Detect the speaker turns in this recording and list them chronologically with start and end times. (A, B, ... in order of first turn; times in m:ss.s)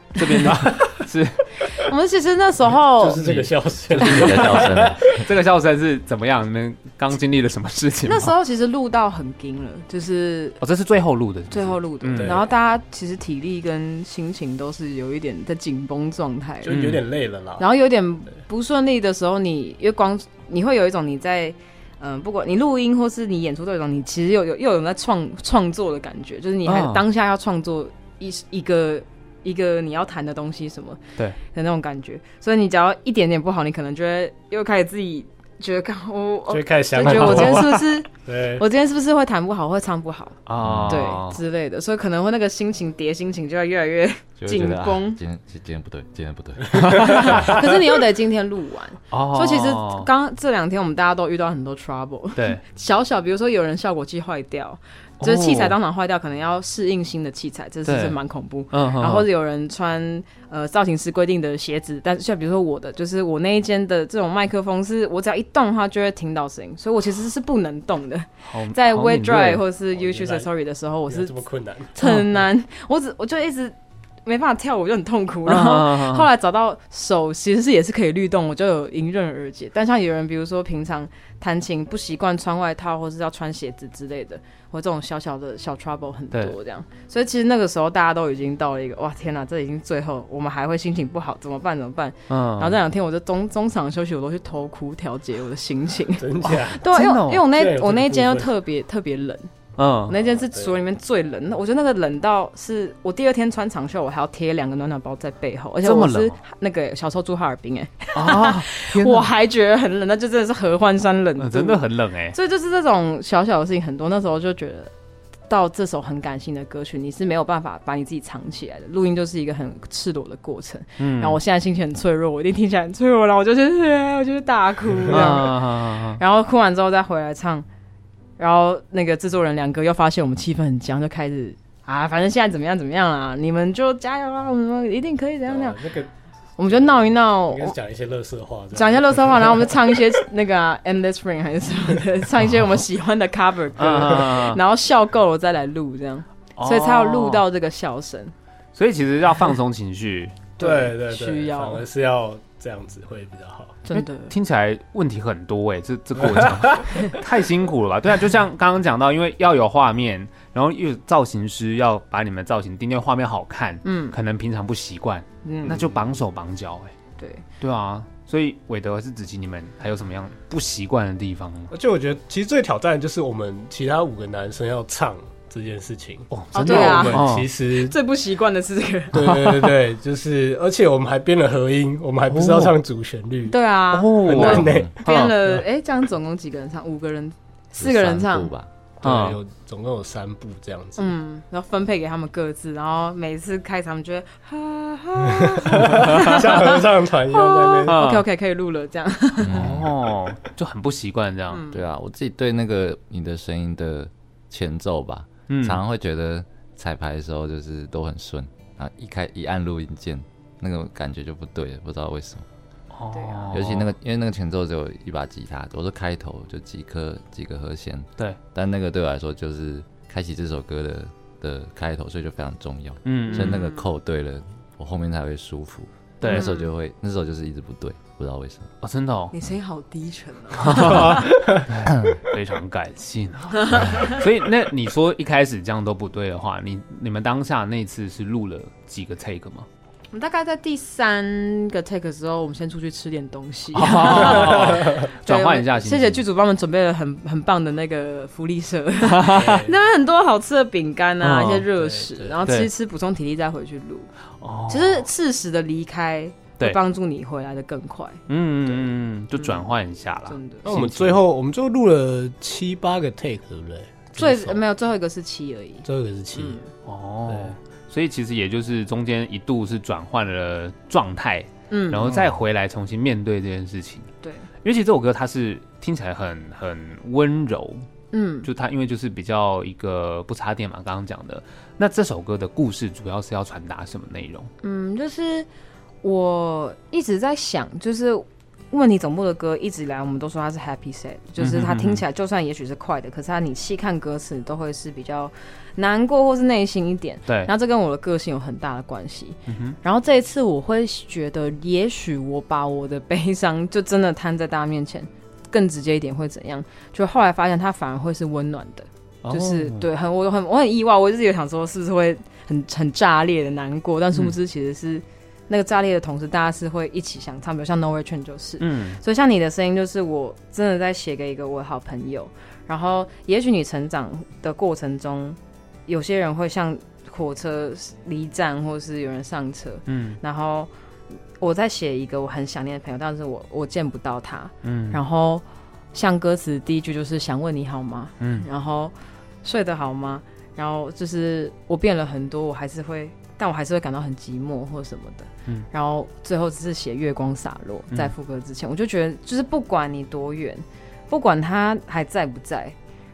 0:00.1-0:01.8 A
0:01.6-0:03.2 B
0:03.0-0:05.0 C
0:03.2-0:08.3 A
0:04.0-0:05.2 D
0:04.0-0:04.6 B
0:08.0-0:10.6 B
0:10.6-0:12.4 A
0:11.5-0:16.7 B
0:12.1-0:12.4 C
0:16.6-0:17.6 C
0:16.7-0:17.0 A
0:17.6-0:40.4 B
0:26.6-0:27.0 A
0:36.5-0:38.6 C
0:37.0-0:37.8 A
0:40.4-0:41.4 A
0:40.6-0:41.0 D
0:40.9-0:45.2 B
0:44.4-0:47.6 D
0:46.7-0:47.5 A
0:47.2-1:11.4 B
0:49.1-0:50.1 A
0:55.2-0:55.8 A
0:57.8-0:58.2 A
0:58.7-0:59.3 A
1:08.5-1:09.6 A
1:09.9-1:10.5 C
1:11.1-1:12.0 C
1:11.9-1:39.5 B
1:15.4-1:16.3 A
1:32.3-1:32.8 A
1:36.2-1:36.8 C
1:36.5-1:37.5 A
1:37.4-1:38.5 C
1:39.8-1:40.2 A
1:40.1-1:54.9 B
1:45.8-1:46.4 A
1:48.1-1:49.3 A
1:51.4-1:52.4 A
1:55.5-2:07.6 B
2:01.0-2:01.4 A
2:05.1-2:06.2 A
2:08.4-2:15.8 B
2:15.5-2:16.1 C
2:16.6-2:17.8 B
2:16.6-2:17.0 C
2:17.5-2:20.0 C
2:18.7-2:28.3 B
2:23.8-2:24.6 A
2:26.6-2:27.4 A
2:28.7-2:30.5 A
2:30.6-2:31.8 B
2:30.6-2:33.8 C
2:33.8-2:34.3 B
2:33.9-2:46.9 A
2:36.2-2:37.0 C
2:43.8-2:44.2 B
2:45.4-2:45.9 B
2:47.2-2:47.4 B
2:47.6-2:51.7 A
2:51.7-2:58.0 C
2:56.3-2:57.5 A
2:56.5-2:59.3 B
2:59.1-3:03.6 C
2:59.2-2:59.8 A
3:02.3-3:02.7 A
3:03.5-3:08.5 B
3:03.9-3:05.4 A
3:04.2-3:05.6 C
3:07.7-3:08.7 D
3:09.0-3:11.1 C
3:09.0-3:09.4 A
3:11.0-3:19.7 B
3:15.3-3:18.0 C
3:16.0-3:16.4 A
3:17.9-3:18.2 A
3:19.4-3:19.9 D
3:19.5-3:21.6 A
3:21.5-3:21.8 B
3:21.7-3:32.5 D
3:25.5-3:25.8 A
3:32.9-3:33.9 A
3:33.1-3:33.6 B
3:33.5-3:48.7 D
3:43.0-3:43.6 A
3:43.3-3:43.8 B
3:46.2-3:46.5 A
3:46.2-3:46.7 B
3:48.8-3:49.3 A
3:49.3-3:51.3 B
3:50.5-3:59.7 A
3:50.9-3:51.7 C
3:53.6-3:54.2 B
3:53.8-3:54.1 D
4:00.1-4:14.1 B
4:03.7-4:06.2 A
4:04.5-4:04.9 C
4:09.0-4:09.7 A
4:09.3-4:09.7 C
4:11.2-4:11.7 A
4:11.8-4:12.4 C
4:12.4-4:12.7 A
4:14.4-4:15.1 A
4:14.7-4:18.2 B
4:18.3-4:21.2 A
4:20.3-4:20.7 B
4:20.6-4:24.6 C
4:24.2-4:26.7 B
4:25.8-4:26.6 C
4:26.8-4:34.1 A
4:31.7-4:32.1 B
4:32.0-4:32.4 C
4:34.2-4:34.5 B
4:34.6-4:37.8 A
4:38.1-4:38.5 B
4:38.4-4:44.5 A
4:44.6-4:45.5 B
4:46.0-5:30.7 B
4:51.4-4:52.0 A
4:59.5-4:59.8 A
5:09.2-5:09.9 A
5:18.6-5:19.0 A
5:29.9-5:30.2 A
5:31.4-5:35.4 B
5:34.6-5:35.0 A
5:35.9-5:52.8 B
5:38.2-5:38.4 A